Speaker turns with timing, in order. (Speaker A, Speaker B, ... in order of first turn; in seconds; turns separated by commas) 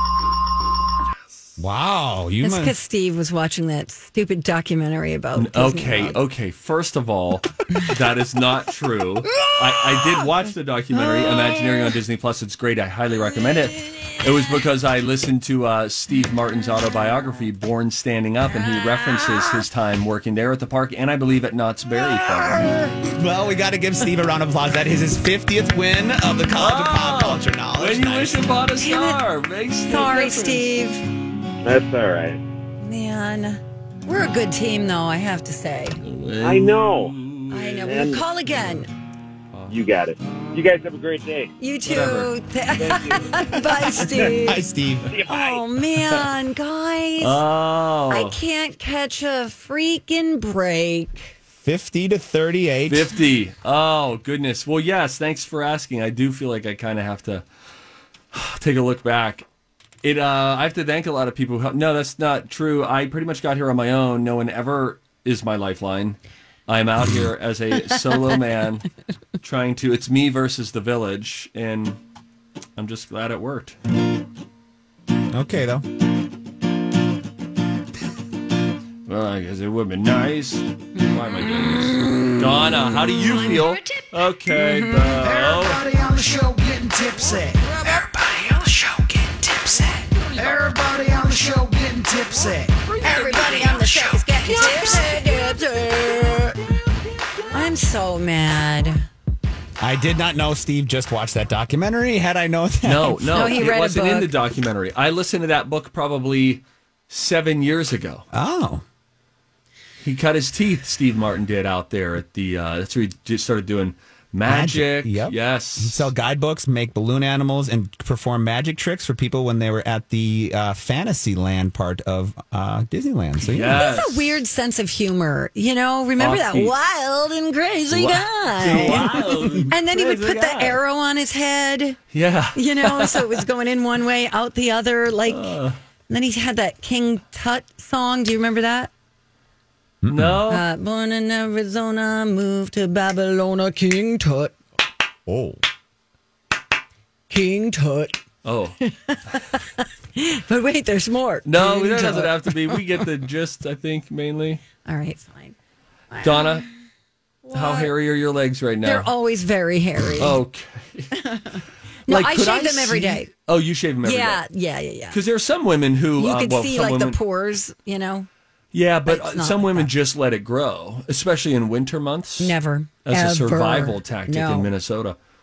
Speaker A: 1.6-2.8, Speaker B: 2.4-6.2, Speaker C: 5.3-22.7, Speaker A: 21.9-28.6, Speaker C: 26.6-30.7, Speaker B: 28.8-29.2, Speaker B: 29.9-31.0, Speaker D: 31.6-32.4, Speaker B: 32.8-36.0, Speaker C: 36.0-37.9, Speaker D: 36.4-37.1, Speaker B: 37.5-38.9, Speaker D: 37.8-38.2, Speaker D: 39.7-41.5, Speaker B: 41.6-44.6, Speaker C: 41.9-42.3, Speaker A: 44.1-45.1, Speaker D: 45.1-45.6, Speaker B: 45.3-47.4, Speaker C: 47.2-48.4, Speaker B: 48.1-51.3, Speaker A: 51.6-53.1, Speaker C: 52.9-57.4, Speaker C: 58.3-59.5, Speaker C: 60.0-68.9, Speaker C: 69.4-72.0, Speaker C: 72.8-73.8, Speaker A: 75.3-75.8, Speaker C: 79.1-85.8, Speaker B: 81.0-82.3, Speaker B: 83.3-83.8, Speaker E: 85.2-95.1, Speaker B: 93.0-96.5, Speaker B: 97.5-99.0, Speaker A: 99.8-103.6, Speaker C: 102.8-108.3, Speaker B: 103.3-104.3, Speaker A: 108.3-108.8, Speaker C: 110.0-116.1, Speaker A: 114.5-123.8, Speaker C: 123.4-124.4, Speaker B: 123.7-132.0, Speaker C: 126.2-126.8, Speaker C: 127.9-130.8, Speaker A: 128.6-129.7, Speaker C: 132.1-133.4, Speaker B: 132.6-135.6, Speaker C: 135.3-135.8, Speaker B: 136.1-138.9, Speaker A: 140.0-140.4, Speaker C: 140.1-140.7, Speaker B: 140.5-144.6, Speaker A: 145.3-145.6, Speaker B: 147.3-148.2, Speaker C: 148.4-148.8, Speaker B: 148.8-152.9, Speaker C: 151.4-154.6, Speaker B: 154.8-155.6, Speaker B: 156.1-156.7, Speaker C: 156.2-156.7, Speaker B: 157.5-157.9, Speaker C: 157.5-159.1, Speaker B: 158.8-160.4, Speaker C: 160.2-161.1, Speaker B: 161.3-163.3, Speaker C: 162.1-164.4, Speaker B: 164.0-165.2, Speaker C: 165.1-167.2, Speaker B: 166.2-168.3, Speaker C: 168.7-175.2, Speaker B: 169.1-169.9, Speaker B: 172.4-174.7